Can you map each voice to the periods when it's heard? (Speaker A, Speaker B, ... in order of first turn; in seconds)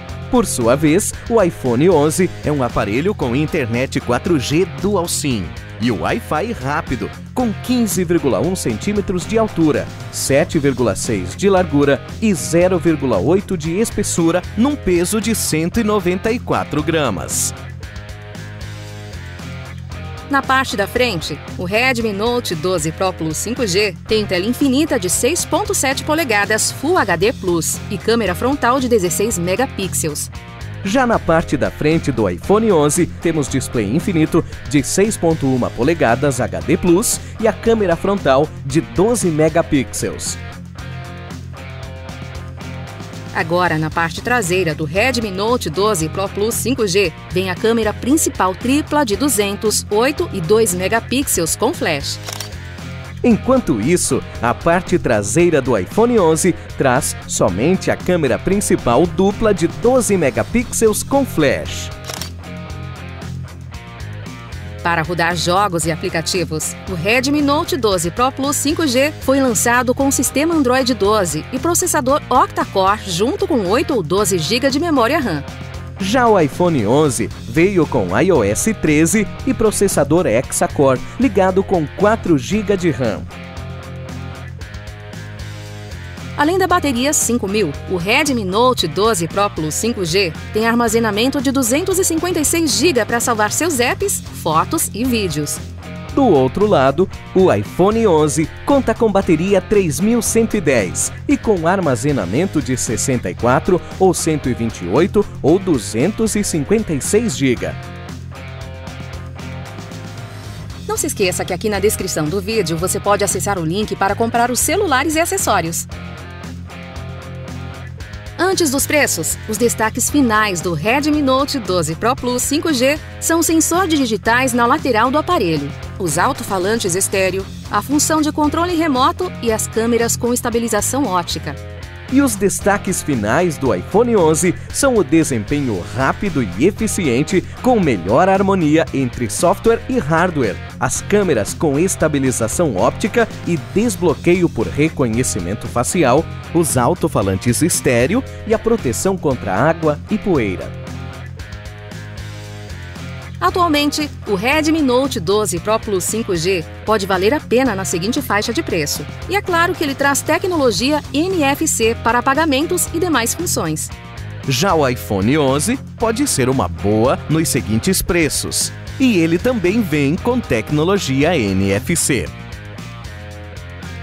Speaker A: 0.3-17.5, 30.8-40.4, 53.2-61.9, 76.0-83.2, 96.1-107.8, 132.1-150.7, 164.5-172.3
Speaker B: 20.3-30.3, 43.3-52.2, 64.8-75.5, 86.3-95.6, 110.9-115.9, 118.4-131.6, 153.4-163.9